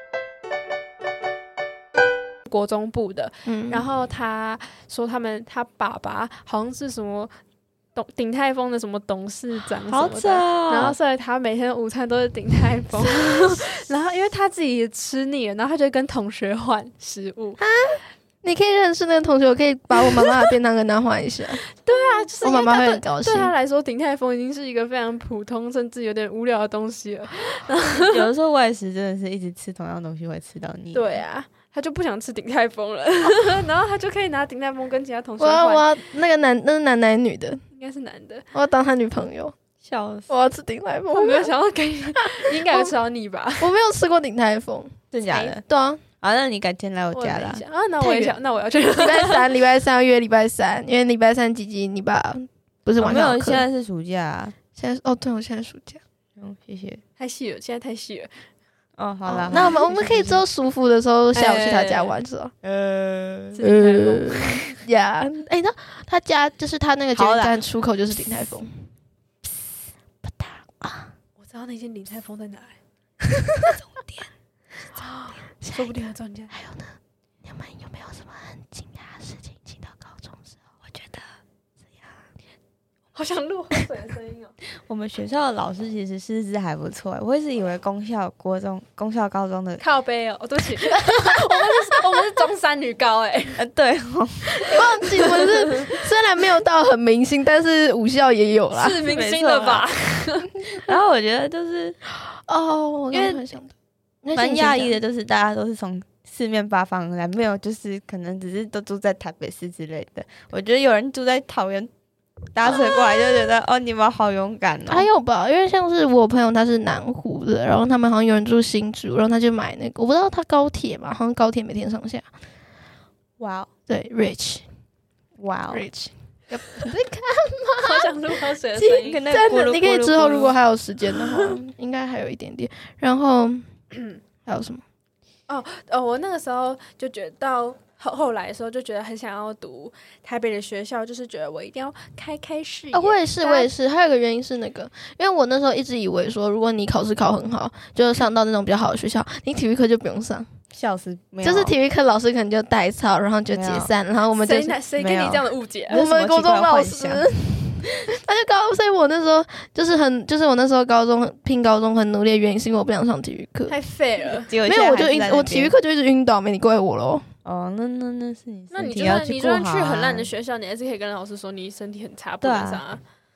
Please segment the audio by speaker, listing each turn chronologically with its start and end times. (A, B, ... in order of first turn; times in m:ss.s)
0:02.4-0:07.3 A
0:03.4-0:03.9 B
0:07.9-0:17.6 A
0:09.9-0:10.9 C
0:10.7-0:11.0 B
0:17.6-0:21.6 B
0:21.8-0:28.3 A
0:22.4-0:23.5 B
0:28.1-0:31.2 C
0:30.9-0:35.9 A
0:35.4-0:37.6 B
0:37.7-0:38.4 A
0:38.5-0:39.6 B
0:39.8-0:40.3 C
0:40.3-0:41.5 B
0:41.1-0:43.7 A
0:42.3-0:42.9 B
0:43.6-0:44.9 B
0:45.1-0:45.6 C
0:45.2-0:45.5 A
0:45.7-0:46.0 B
0:46.2-0:47.6 C
0:47.1-0:49.5 A
0:48.0-0:48.4 B
0:49.0-0:53.7 B
0:53.0-0:54.5 C
0:54.8-0:56.0 B
0:56.4-0:57.0 C
0:57.2-0:58.3 A
0:59.0-1:00.4 C
0:59.4-0:59.7 A
0:59.5-1:02.5 B
1:01.3-1:02.1 A
1:02.6-1:03.6 C
1:03.5-1:04.4 A
1:03.6-1:08.9 B
1:07.2-1:07.6 C
1:10.2-1:11.1 B
1:11.4-1:12.8 A
1:15.0-1:16.6 A
1:15.6-1:20.6 B
1:20.9-1:21.2 C
1:23.1-1:24.5 A
1:24.8-1:29.8 C
1:29.8-1:33.6 A
1:33.6-1:34.5 C
1:34.6-1:35.4 A
1:34.6-1:39.0 B
1:38.7-1:40.5 A
1:39.1-1:39.9 C
1:40.8-1:42.0 C
1:42.2-1:45.0 B
1:43.1-1:43.4 C
1:44.3-1:51.9 C
1:52.5-1:55.0 C
1:52.6-1:53.5 B
1:54.9-2:02.3 B
2:03.4-2:03.7 C
2:03.9-2:04.6 B
2:05.4-2:05.8 C
2:05.7-2:07.0 B
2:06.8-2:09.2 A
2:07.8-2:08.1 B
2:08.7-2:13.6 B
2:09.0-2:10.6 C
2:13.9-2:14.2 A
2:14.4-2:14.8 B
2:15.5-2:23.7 A
2:22.9-2:30.5 B
2:30.7-2:31.8 C
2:31.4-2:34.8 B
2:33.5-2:33.9 C
2:34.3-2:36.0 A
2:35.0-2:37.3 C
2:35.9-2:43.8 B
2:43.7-2:44.5 A
2:44.4-2:45.7 C
2:44.6-2:47.2 B
2:47.4-2:50.3 C
2:48.7-2:53.0 A
2:52.4-2:52.8 C